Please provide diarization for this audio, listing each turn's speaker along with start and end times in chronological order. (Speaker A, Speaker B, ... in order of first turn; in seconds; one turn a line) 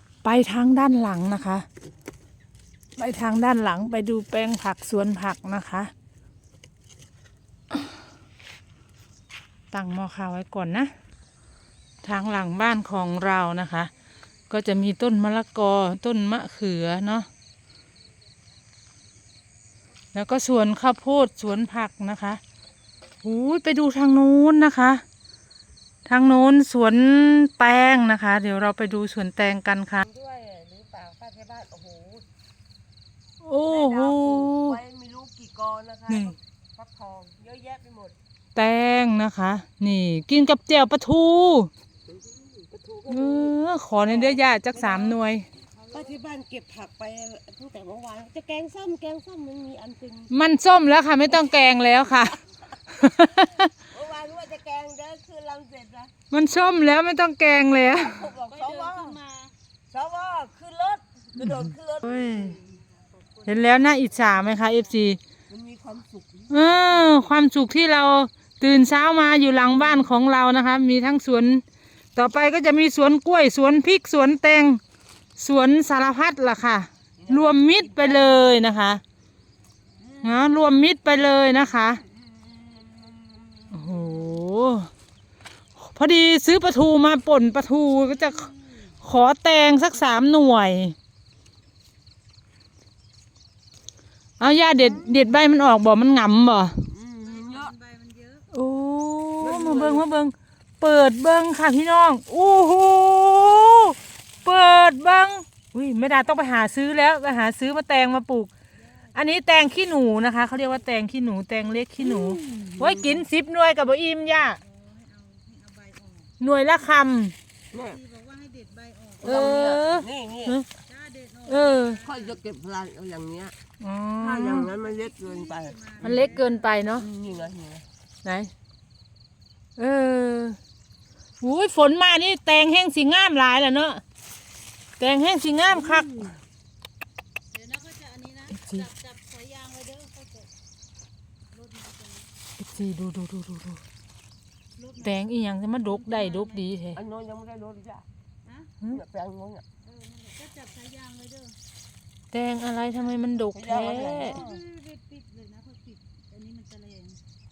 Speaker A: 0.2-1.7
Speaker A: 3.0-5.9
Speaker A: 9.7-10.9
Speaker A: 12.0-13.9
Speaker A: 14.5-17.3
Speaker A: 20.1-22.4
Speaker A: 23.2-25.0
Speaker A: 26.1-30.0
Speaker B: 30.0-32.2
Speaker A: 33.4-34.8
Speaker B: 33.6-38.2
Speaker A: 36.1-36.4
Speaker A: 38.5-41.7
Speaker B: 42.1-45.2
Speaker A: 43.1-45.5
Speaker B: 45.9-50.3
Speaker A: 50.3-53.7
Speaker B: 53.8-56.1
Speaker A: 56.3-58.3
Speaker B: 57.9-59.2
Speaker C: 58.5-59.5
Speaker B: 59.9-62.7
Speaker A: 62.0-62.6
Speaker C: 62.6-64.8
Speaker A: 63.5-65.2
Speaker B: 65.5-67.3
Speaker A: 66.5-71.6
Speaker A: 72.2-74.8
Speaker A: 75.4-79.0
Speaker B: 77.2-78.4
Speaker B: 80.0-80.5
Speaker A: 80.2-82.0
Speaker B: 81.8-84.4
Speaker A: 83.7-84.9
Speaker A: 85.8-91.0
Speaker A: 94.4-96.8
Speaker B: 94.8-95.3
Speaker B: 96.8-97.8
Speaker C: 97.3-98.5
Speaker A: 98.5-108.5
Speaker B: 99.4-100.1
Speaker C: 104.4-104.7
Speaker A: 109.1-114.6
Speaker B: 112.0-113.3
Speaker C: 114.5-116.3
Speaker A: 116.4-117.3
Speaker B: 117.7-118.0
Speaker C: 117.9-119.4
Speaker B: 119.2-120.6
Speaker A: 119.2-120.7
Speaker C: 120.9-122.3
Speaker A: 121.5-122.0
Speaker B: 122.0-123.6
Speaker A: 123.8-124.7
Speaker B: 124.2-126.3
Speaker C: 124.9-127.1
Speaker A: 126.0-127.1
Speaker B: 127.0-127.9
Speaker A: 128.2-128.5
Speaker A: 129.8-130.6
Speaker A: 131.4-134.0
Speaker A: 135.0-136.3
Speaker B: 135.7-136.4
Speaker C: 137.5-140.5
Speaker A: 138.6-138.9
Speaker C: 141.5-142.3
Speaker A: 142.6-143.8
Speaker C: 144.8-145.2
Speaker A: 145.0-147.0
Speaker C: 145.9-146.8
Speaker B: 146.9-148.1
Speaker C: 148.5-148.7
Speaker B: 148.9-149.7
Speaker C: 149.8-151.6
Speaker A: 152.3-154.4
Speaker B: 153.5-154.6
Speaker C: 154.1-157.2